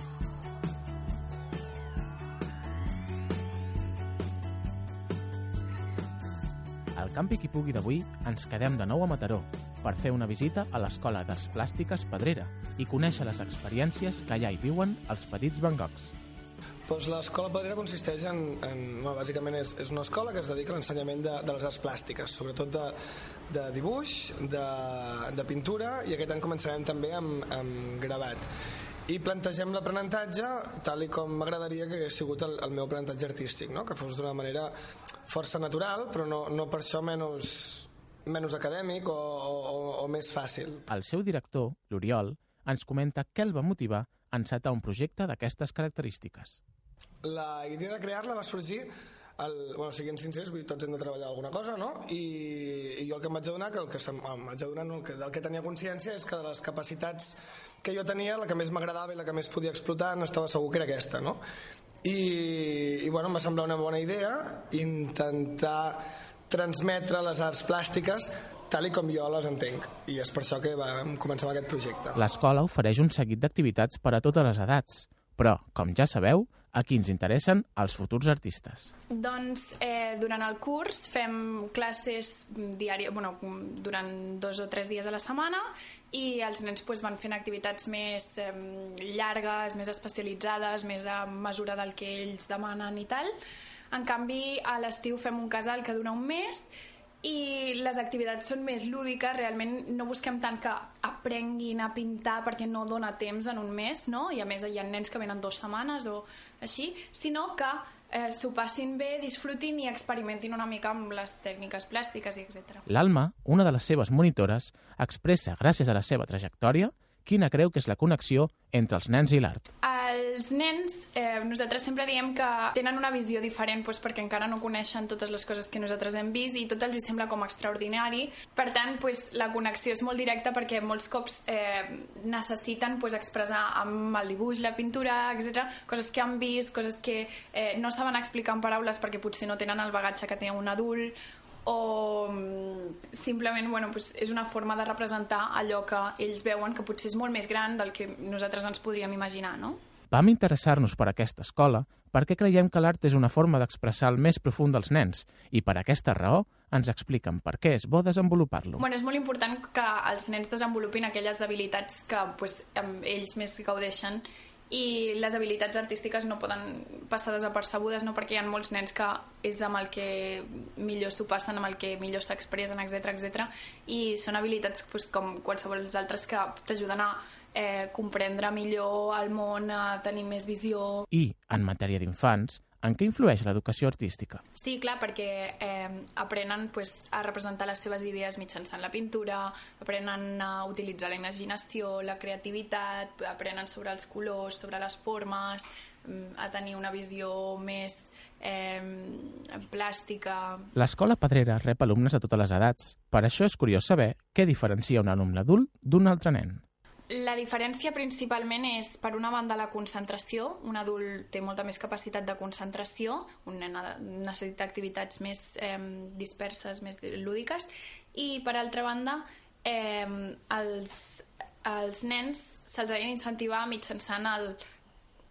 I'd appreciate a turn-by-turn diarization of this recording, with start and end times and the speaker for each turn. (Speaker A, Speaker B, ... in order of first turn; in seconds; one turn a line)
Speaker A: 7.0-16.1
Speaker B: 16.9-23.0
Speaker B: 23.5-28.4
Speaker B: 29.1-34.7
Speaker B: 35.3-40.9
Speaker A: 40.9-46.6
Speaker B: 47.2-48.9
Speaker B: 49.4-61.4
Speaker B: 62.0-72.3
Speaker A: 72.2-78.9
Speaker C: 79.1-93.3
Speaker C: 93.9-96.7
Speaker C: 97.2-112.9
Speaker A: 112.9-119.7
Speaker C: 119.8-149.8
Speaker A: 150.1-158.8
Speaker C: 158.8-181.1
Speaker A: 181.1-184.4
Speaker C: 184.5-200.7
Speaker A: 200.7-206.6
Speaker C: 207.1-224.6